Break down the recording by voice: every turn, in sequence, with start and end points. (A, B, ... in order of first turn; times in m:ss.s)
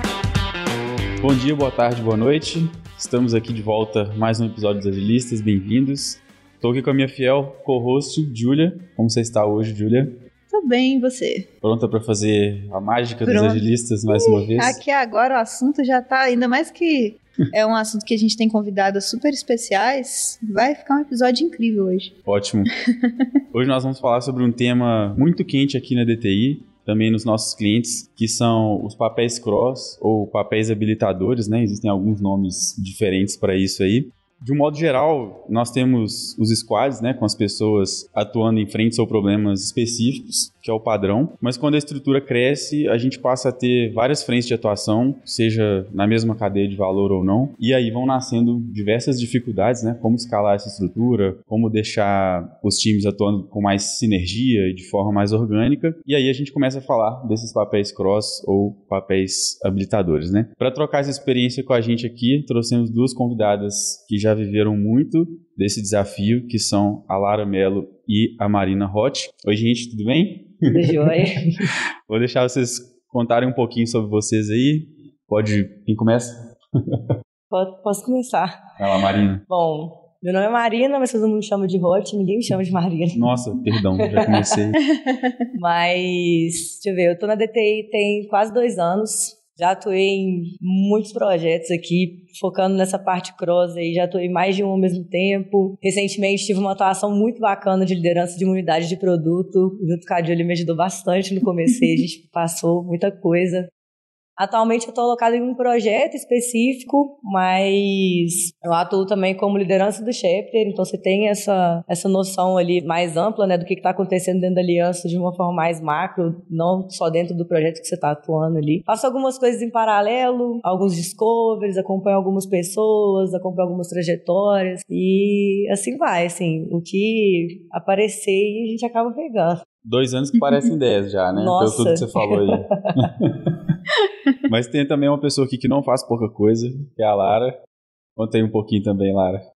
0:01.2-0:10.1 A
0:10.5-0:11.5 B
0:11.6-0:14.8 A
0:13.2-0:22.1 B
0:22.2-0:22.7 A
0:22.9-0:23.3 B
0:23.5-1:11.2 A
1:10.7-1:11.7 C
1:12.1-1:17.0 A
1:17.5-1:24.6 C
1:18.8-1:19.4 A
1:23.1-1:24.8 A
1:24.9-1:25.4 B
1:25.5-1:43.7 C
1:44.4-2:09.6 C
2:09.8-2:13.5 A
2:11.3-2:13.1 C
2:14.4-2:17.6 A
2:18.2-2:19.4 A